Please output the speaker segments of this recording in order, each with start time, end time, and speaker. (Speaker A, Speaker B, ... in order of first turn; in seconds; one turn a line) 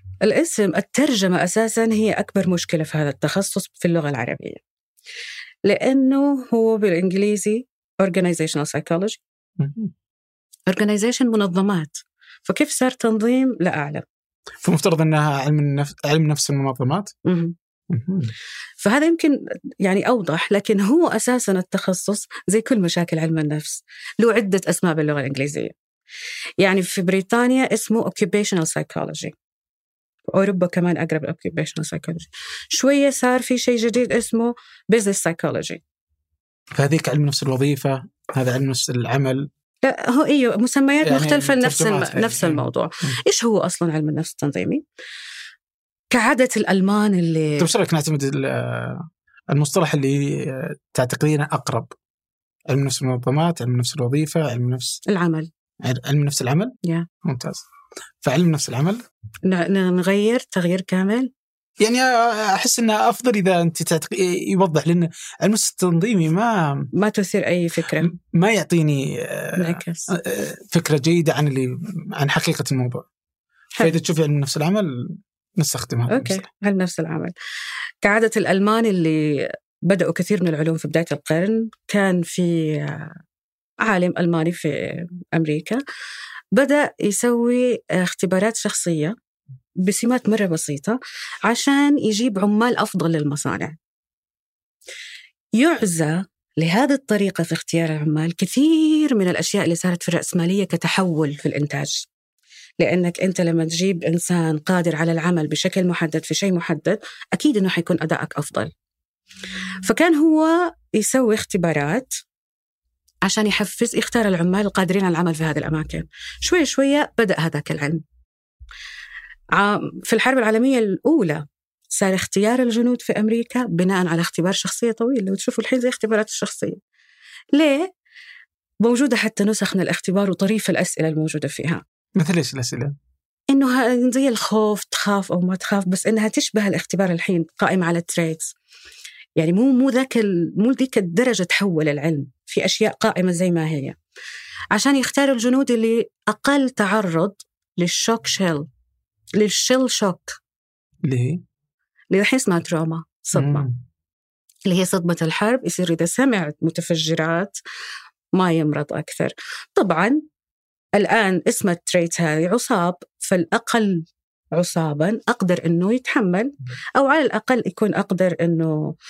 Speaker A: 0.2-4.6
Speaker A: 5.6-9.2
Speaker B: 9.6-9.9
Speaker A: 10.7-14.0
Speaker B: 14.6-17.1
Speaker A: 17.2-17.5
Speaker B: 17.9-18.3
Speaker A: 18.8-25.7
Speaker A: 26.6-29.3
Speaker A: 30.3-35.8
Speaker B: 36.8-39.5
Speaker A: 39.8-44.8
Speaker B: 41.0-43.2
Speaker A: 46.1-47.7
Speaker B: 47.6-51.9
Speaker B: 52.7-55.0
Speaker A: 55.0-55.5
Speaker B: 55.8-57.6
Speaker B: 58.2-59.0
Speaker A: 59.5-61.3
Speaker B: 61.8-66.9
Speaker A: 66.9-68.1
Speaker B: 68.0-73.0
Speaker A: 69.5-70.1
Speaker B: 73.8-76.4
Speaker A: 76.1-77.3
Speaker A: 78.0-83.2
Speaker A: 83.8-85.8
Speaker A: 86.5-89.1
Speaker A: 89.8-93.8
Speaker A: 95.6-102.0
Speaker A: 102.8-108.7
Speaker A: 109.8-112.1
Speaker A: 113.2-118.0
Speaker A: 119.5-126.8
Speaker A: 127.5-127.9
Speaker A: 128.8-131.8
Speaker B: 132.2-132.9
Speaker A: 133.5-138.5
Speaker A: 139.4-143.9
Speaker A: 144.7-148.7
Speaker A: 149.4-150.4
Speaker B: 151.1-151.4
Speaker A: 152.1-153.7
Speaker B: 153.3-153.8
Speaker A: 154.7-157.6
Speaker A: 158.3-160.2
Speaker A: 160.9-168.7